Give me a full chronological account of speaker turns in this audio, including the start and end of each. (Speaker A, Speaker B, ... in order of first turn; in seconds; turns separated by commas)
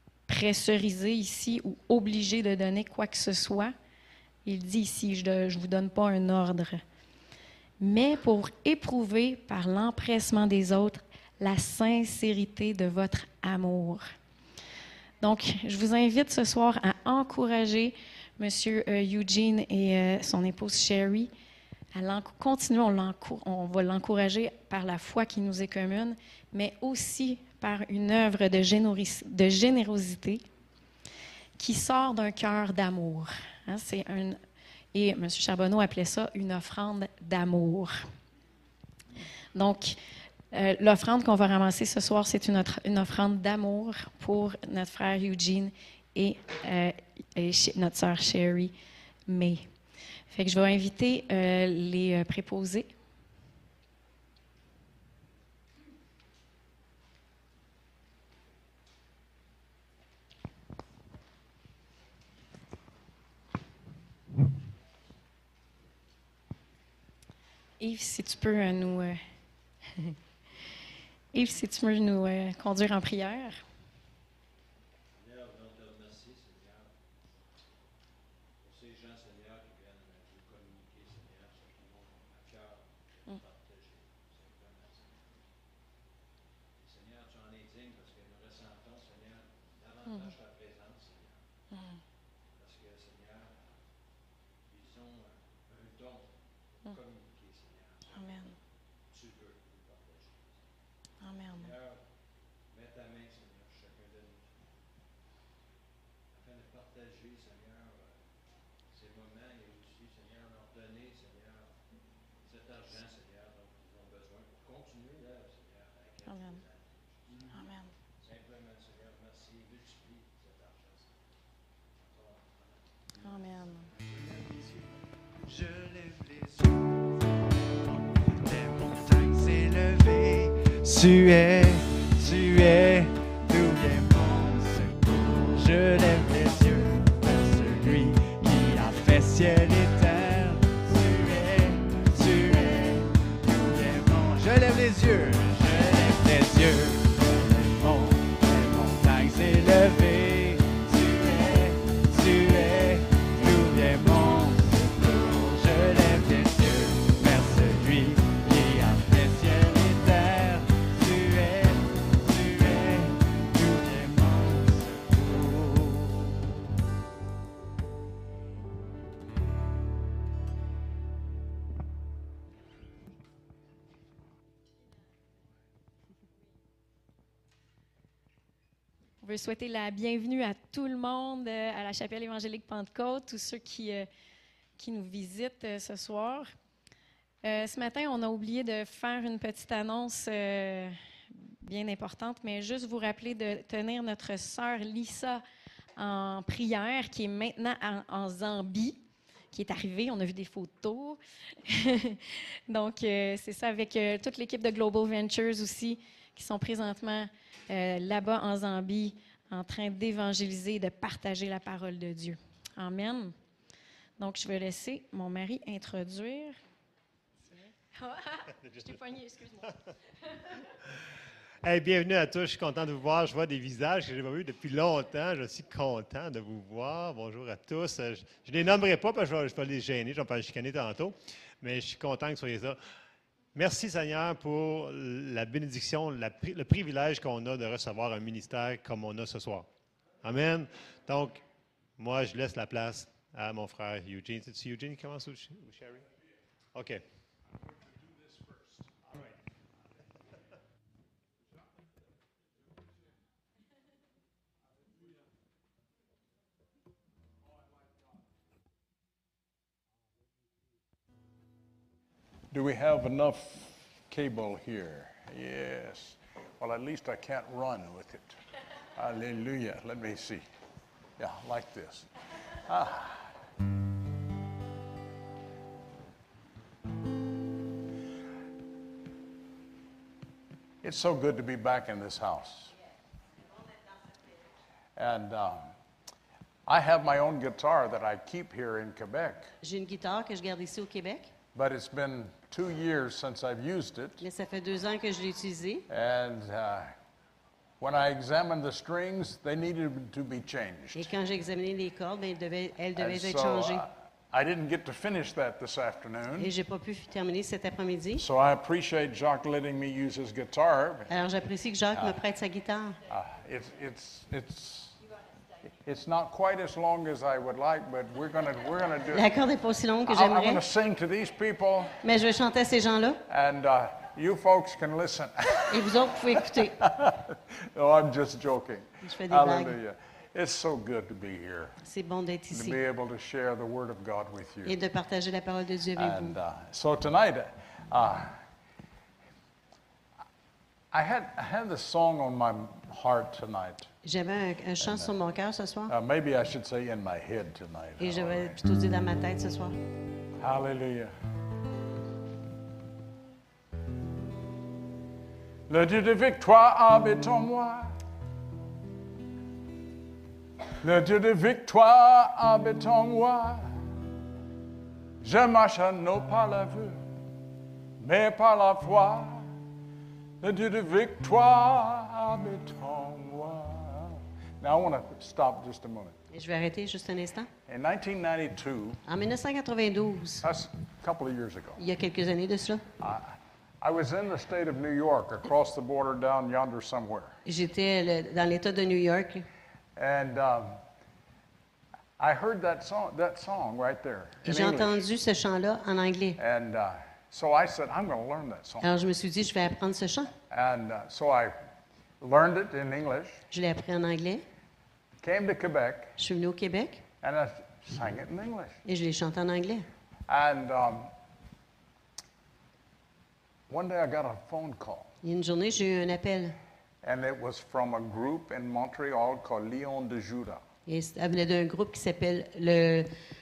Speaker A: 0.3-3.7, Speaker A: 4.4-6.8, Speaker A: 7.8-14.0, Speaker A: 15.2-21.3, Speaker A: 21.9-30.4, Speaker A: 31.6-34.4, Speaker A: 34.9-37.9, Speaker A: 39.5-40.0, Speaker A: 40.5-48.7, Speaker A: 49.3-49.6, Speaker A: 50.3-52.9, Speaker A: 67.8-69.2, Speaker A: 71.3-73.6, Speaker B: 75.1-77.1, Speaker B: 78.6-85.5, Speaker B: 86.8-91.4, Speaker A: 91.7-92.0, Speaker B: 92.5-93.7, Speaker B: 94.7-98.5, Speaker A: 98.1-98.6, Speaker B: 99.1-100.6, Speaker A: 101.2-101.7, Speaker B: 101.5-102.0, Speaker B: 102.7-104.5, Speaker B: 106.3-108.2, Speaker B: 108.9-111.7, Speaker B: 112.4-117.6, Speaker A: 116.2-116.6, Speaker A: 117.5-117.9, Speaker B: 118.2-121.3, Speaker B: 122.0-123.2, Speaker A: 123.2-123.9, Speaker C: 125.4-127.0, Speaker C: 127.8-166.3, Speaker A: 179.2-184.1, Speaker A: 184.8-186.5, Speaker A: 187.4-191.0, Speaker A: 191.6-195.4, Speaker A: 195.9-199.0, Speaker A: 199.5-213.3, Speaker A: 214.2-216.6, Speaker A: 217.5-219.7, Speaker D: 218.6-219.0, Speaker D: 221.6-232.8, Speaker D: 233.5-239.7, Speaker D: 240.2-241.4, Speaker D: 242.0-246.1, Speaker D: 246.7-247.0, Speaker E: 262.5-268.4, Speaker E: 268.9-270.4, Speaker E: 271.2-272.1, Speaker E: 272.7-273.3, Speaker E: 280.8-282.7, Speaker E: 284.9-285.7, Speaker E: 286.6-289.5, Speaker F: 289.6-291.3, Speaker E: 291.5-294.2, Speaker F: 294.2-295.9, Speaker E: 295.9-296.9, Speaker E: 297.8-301.1, Speaker F: 300.9-303.8, Speaker E: 302.9-306.5, Speaker F: 306.4-308.2, Speaker E: 308.1-311.1, Speaker F: 311.1-313.0, Speaker E: 311.9-312.2, Speaker E: 313.1-315.0, Speaker E: 315.8-319.3, Speaker F: 319.1-320.6, Speaker E: 320.1-322.0, Speaker F: 322.0-323.2, Speaker E: 323.3-331.7, Speaker F: 325.7-326.8, Speaker F: 329.0-329.7, Speaker F: 331.8-332.8, Speaker E: 332.5-334.8, Speaker F: 334.6-336.4, Speaker E: 335.9-338.4, Speaker E: 340.9-343.9, Speaker F: 344.0-345.9, Speaker E: 344.8-345.1, Speaker E: 345.9-348.6, Speaker F: 348.0-349.8, Speaker E: 350.4-351.1, Speaker E: 355.7-358.0, Speaker E: 360.8-363.7, Speaker E: 365.2-367.0, Speaker E: 368.0-369.5, Speaker E: 370.4-376.1, Speaker F: 376.3-377.5, Speaker E: 377.7-379.0, Speaker F: 379.1-380.4, Speaker E: 380.4-381.8, Speaker F: 381.8-382.8, Speaker E: 383.0-387.4, Speaker F: 387.4-389.4, Speaker E: 389.9-390.8, Speaker E: 392.2-395.0, Speaker F: 394.4-396.4, Speaker E: 396.4-398.9, Speaker F: 398.8-400.3, Speaker E: 400.5-401.5, Speaker E: 402.2-403.4, Speaker F: 403.5-404.4, Speaker E: 405.2-406.1, Speaker F: 406.2-407.0, Speaker E: 407.2-408.8, Speaker F: 408.9-409.9, Speaker E: 410.3-411.1, Speaker E: 413.7-415.1, Speaker F: 415.2-416.6, Speaker E: 417.0-420.6, Speaker F: 420.9-423.1